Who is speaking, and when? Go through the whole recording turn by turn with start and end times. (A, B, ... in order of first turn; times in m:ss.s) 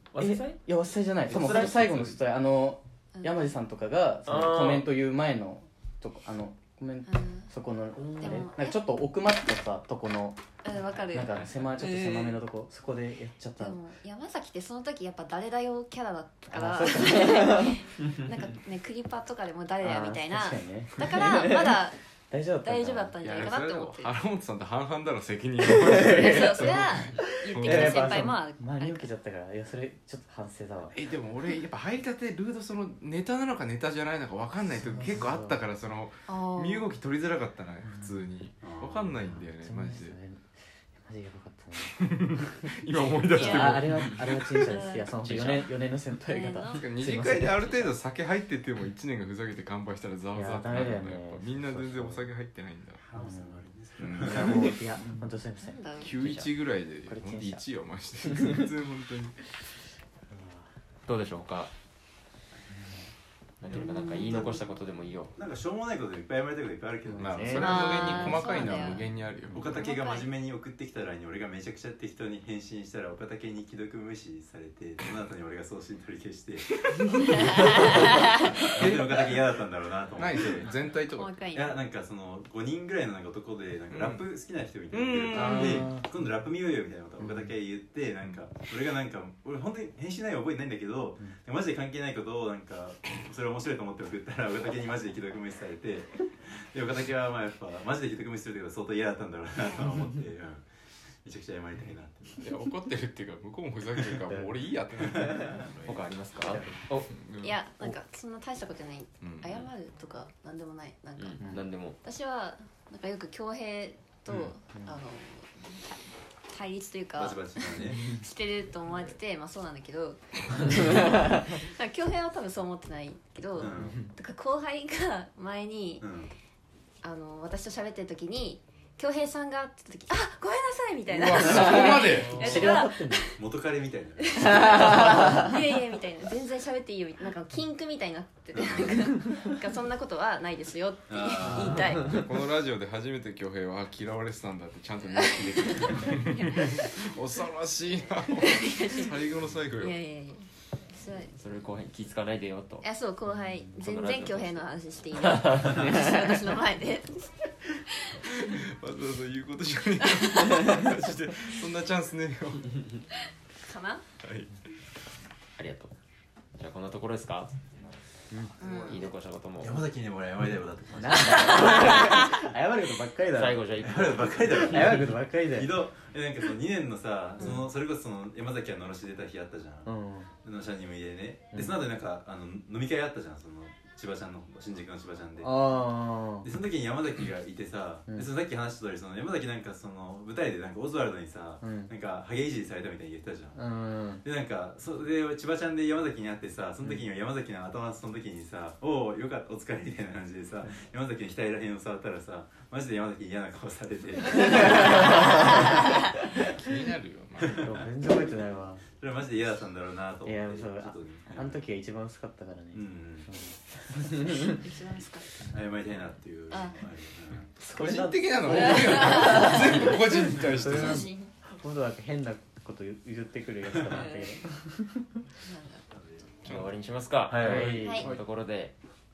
0:00.1-0:00.6 A
0:00.2-0:10.4 B
0:01.3-0:02.0 A
0:01.4-0:02.0 C
0:03.1-0:03.5 D
0:04.2-0:04.9 A
0:07.1-0:07.5 D
0:08.0-0:08.5 A
0:08.2-0:08.8 D
0:10.6-0:12.4 D
0:11.1-0:13.8 B
0:13.6-0:22.0 D
0:16.5-0:17.8 B
0:19.8-0:21.8 B
0:22.3-0:23.2 B
0:22.6-0:24.1 D
0:23.2-0:28.3 C
0:25.9-0:29.1 D
0:26.2-0:26.5 B
0:27.2-0:31.0 B
0:30.9-0:40.2 C
0:34.8-0:35.6 B
0:36.3-0:36.9 D
0:38.6-0:39.3 E
0:39.2-0:42.7 B
0:42.0-0:44.5 C
0:43.3-0:47.9 B
0:43.3-0:45.1 D
0:45.2-0:45.7 A
0:46.2-0:46.9 D
0:46.7-0:53.0 C
0:50.3-0:52.2 B
0:53.0-0:54.7 E
0:53.1-0:53.6 B
0:54.0-0:54.7 C
0:54.2-0:55.9 B
0:55.6-0:56.1 D
0:56.0-0:59.4 C
0:56.1-0:56.5 A
0:57.0-0:57.6 B
1:00.3-1:00.6 B
1:01.0-1:01.7 A
1:03.6-1:05.3 A
1:03.7-1:04.5 D
1:03.7-1:04.6 E
1:05.4-1:08.8 E
1:07.0-1:07.9 B
1:07.2-1:09.8 C
1:07.6-1:09.0 D
1:09.5-1:20.8 E
1:09.6-1:10.3 D
1:17.3-1:18.5 D
1:17.8-1:19.4 C
1:20.2-1:21.5 C
1:21.1-1:21.8 D
1:21.5-1:40.6 E
1:23.9-1:24.2 C
1:24.9-1:26.0 C
1:25.3-1:26.1 B
1:27.2-1:27.5 B
1:41.2-1:42.6 E
1:42.4-1:45.8 C
1:45.1-1:45.9 E
1:45.8-1:47.1 A
1:46.4-1:46.8 B
1:47.1-1:47.6 C
1:47.4-2:06.0 D
1:49.2-1:49.7 C
1:51.2-1:52.0 A
1:57.2-1:58.0 E
2:03.6-2:04.1 E
2:06.0-2:06.3 E
2:07.0-2:13.4 D
2:11.1-2:12.6 C
2:11.5-2:13.3 B
2:13.4-2:15.5 E
2:14.2-2:22.3 D
2:18.5-2:19.2 E
2:21.1-2:22.0 E
2:22.0-2:30.0 C
2:25.2-2:27.1 D
2:28.4-2:29.2 D
2:29.8-2:31.4 D
2:31.4-2:32.8 A
2:32.8-2:38.6 D
2:33.8-2:34.6 A
2:35.2-2:36.1 A
2:38.3-2:43.0 C
2:40.0-2:40.3 D
2:43.6-2:44.0 D
2:44.2-2:44.5 C
2:45.6-2:45.9 A
2:46.5-2:47.5 A
2:48.6-2:48.9 E
2:48.6-2:49.0 D
2:48.6-2:49.8 A
2:49.6-2:52.3 E
2:51.0-2:55.7 B
2:53.3-2:54.7 A
2:53.8-2:59.9 E
2:57.4-2:57.6 D
2:59.8-3:00.3 B
3:00.4-3:05.8 E
3:01.5-3:01.8 B
3:05.4-3:06.5 B
3:06.4-3:13.6 E
3:11.6-3:11.9 B
3:13.5-3:14.2 B
3:14.2-3:25.9 E
3:26.4-3:27.8 C
3:27.5-3:28.3 E
3:27.5-3:28.8 B
3:29.0-3:31.6 E
3:30.2-3:34.6 B
3:32.7-3:33.3 E
3:34.4-3:35.5 D
3:35.5-3:37.6 E
3:36.5-3:36.8 D
3:37.6-3:39.8 B
3:37.7-3:41.1 C
3:38.7-3:39.6 D
3:40.5-3:45.2 B
3:40.7-3:41.3 D
3:43.7-3:44.0 E
3:43.9-3:44.4 D
3:45.4-3:45.8 D
3:45.9-3:46.3 E
3:46.4-3:46.7 C
3:46.4-3:48.7 A
3:47.3-3:47.9 E
3:47.3-3:48.1 B